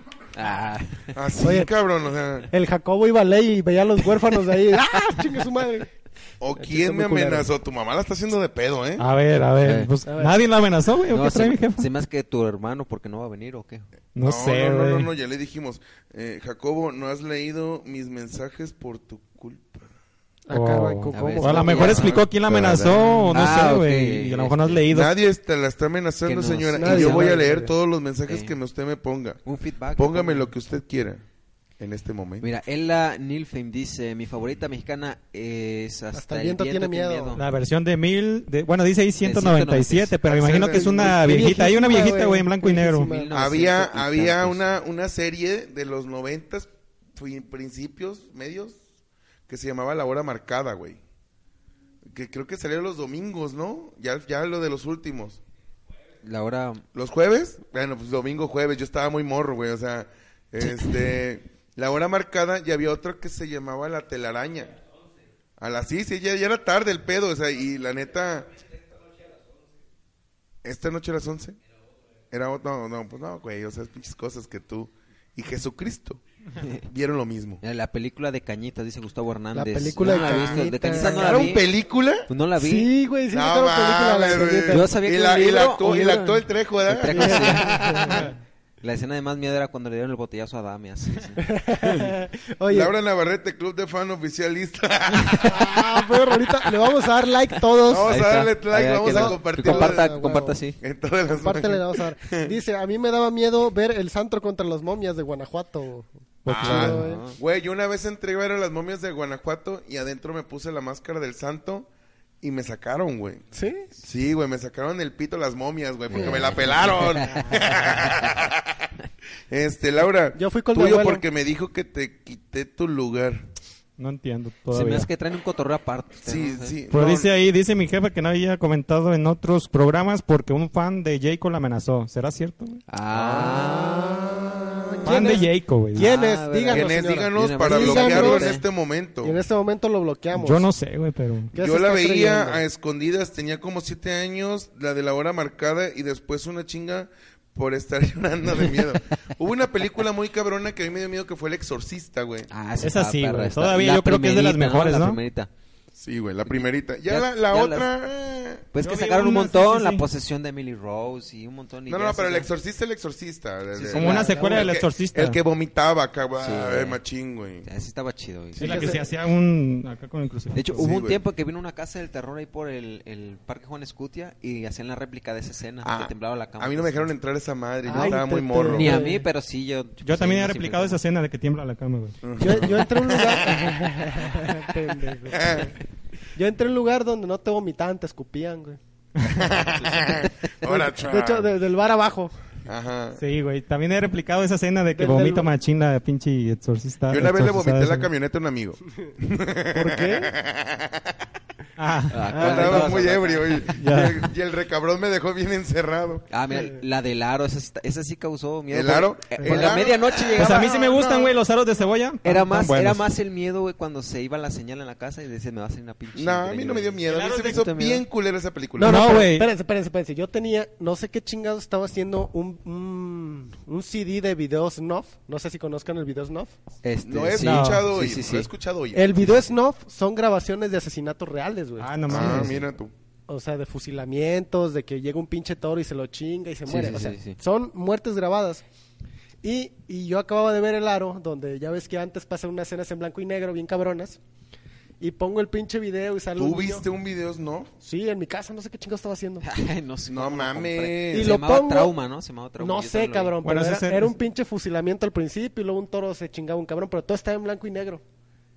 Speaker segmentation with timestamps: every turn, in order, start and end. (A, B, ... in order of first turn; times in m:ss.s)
0:00.3-0:01.2 A
0:01.1-0:02.5 B
0:01.4-0:01.7 C
0:02.5-0:05.9 C
0:06.4-0:09.1 B
0:06.6-0:07.5 C
0:09.0-0:11.9 D
0:09.6-0:09.9 A
0:10.0-0:10.4 C
0:11.1-0:13.8 A
0:14.2-0:15.1 D
0:14.2-0:19.9 B
0:20.5-0:22.1 C
0:20.5-0:25.1 D
0:21.1-0:24.8 A
0:21.6-0:23.3 B
0:24.9-0:29.4 B
0:26.2-0:27.4 A
0:26.8-0:27.7 C
0:28.3-0:28.5 A
0:29.4-0:30.5 A
0:30.0-0:31.2 B
0:31.8-0:32.5 B
0:32.4-0:37.4 A
0:36.1-0:37.4 C
0:37.4-0:43.1 D
0:39.2-0:40.2 A
0:40.2-0:41.4 B
0:40.7-0:43.3 C
0:43.0-0:44.6 A
0:43.3-0:48.8 B
0:49.5-0:51.0 B
0:52.1-0:55.4 B
0:56.2-0:56.8 A
0:56.9-1:04.8 B
1:00.6-1:00.9 A
1:05.6-1:08.5 B
1:10.6-1:11.6 B
1:12.3-1:16.2 B
1:16.6-1:16.8 A
1:16.9-1:17.6 B
1:17.6-1:21.7 A
1:19.5-1:21.5 C
1:20.0-1:22.3 B
1:22.3-1:22.9 A
1:22.6-1:24.9 C
1:23.3-1:28.3 B
1:24.7-1:28.2 A
1:27.1-1:28.3 C
1:28.8-1:31.4 A
1:31.4-1:32.9 C
1:31.9-1:32.1 B
1:32.7-1:36.0 B
1:35.4-1:38.1 C
1:37.8-1:40.2 B
1:38.1-1:40.8 A
1:39.0-1:40.6 C
1:40.8-1:42.5 B
1:41.4-1:47.2 C
1:46.4-1:47.0 D
1:46.5-1:51.9 B
1:46.7-1:47.4 A
1:52.4-1:58.9 B
1:53.5-1:53.9 C
1:56.1-1:58.3 A
1:59.5-2:03.5 B
2:00.3-2:01.2 C
2:04.0-2:05.1 D
2:04.7-2:06.8 A
2:06.2-2:07.3 B
2:06.9-2:12.8 D
2:12.9-2:14.5 A
2:13.1-2:13.7 B
2:13.3-2:18.6 C
2:14.6-2:14.9 B
2:15.0-2:16.1 D
2:15.9-2:18.6 A
2:16.7-2:19.4 B
2:19.2-2:20.6 C
2:20.3-2:21.5 D
2:21.5-2:22.6 C
2:21.6-2:32.5 B
2:32.5-2:35.5 A
2:32.8-2:35.2 D
2:35.9-2:38.7 B
2:36.5-2:37.9 A
2:38.7-2:42.5 A
2:38.8-2:40.0 D
2:41.9-2:47.6 B
2:43.7-2:44.7 A
2:43.9-2:45.4 D
2:46.4-2:47.0 A
2:47.6-2:49.0 A
2:48.6-2:49.0 C
2:48.6-2:50.8 D
2:50.5-2:57.1 A
2:50.8-2:51.2 B
2:55.8-2:59.0 B
2:57.8-2:59.2 C
2:57.9-3:01.0 A
3:00.0-3:02.2 D
3:02.2-3:03.8 B
3:02.4-3:05.7 C
3:05.2-3:05.7 B
3:06.4-3:08.8 C
3:09.2-3:09.5 D
3:09.2-3:11.5 B
3:10.6-3:12.3 C
3:12.6-3:13.2 B
3:13.2-3:18.1 D
3:14.9-3:15.5 C
3:17.1-3:21.2 B
3:19.7-3:20.3 C
3:21.8-3:22.3 D
3:22.1-3:23.7 A
3:22.3-3:22.9 C
3:22.3-3:26.2 B
3:23.7-3:24.2 D
3:26.3-3:31.0 A
3:28.7-3:31.3 B
3:29.4-3:29.8 C
3:30.3-3:33.0 D
3:32.2-3:38.0 A
3:36.1-3:39.1 B
3:37.1-3:37.6 D
3:38.8-3:46.5 C
3:38.8-3:39.5 D
3:46.8-3:48.5 A
3:47.0-3:49.1 B
3:47.4-3:47.9 D
3:48.9-3:51.9 C
3:49.2-3:49.5 A
3:51.8-3:52.6 D
3:52.1-3:52.9 B
3:52.2-3:52.6 A
3:53.3-3:58.6 C
3:56.6-3:57.4 A
3:59.4-4:04.2 C
4:05.0-4:06.8 C
4:06.4-4:07.7 B
4:07.8-4:09.4 C
4:09.4-4:13.4 A
4:10.1-4:11.4 B
4:11.1-4:11.9 C
4:12.6-4:18.0 C
4:13.4-4:14.1 D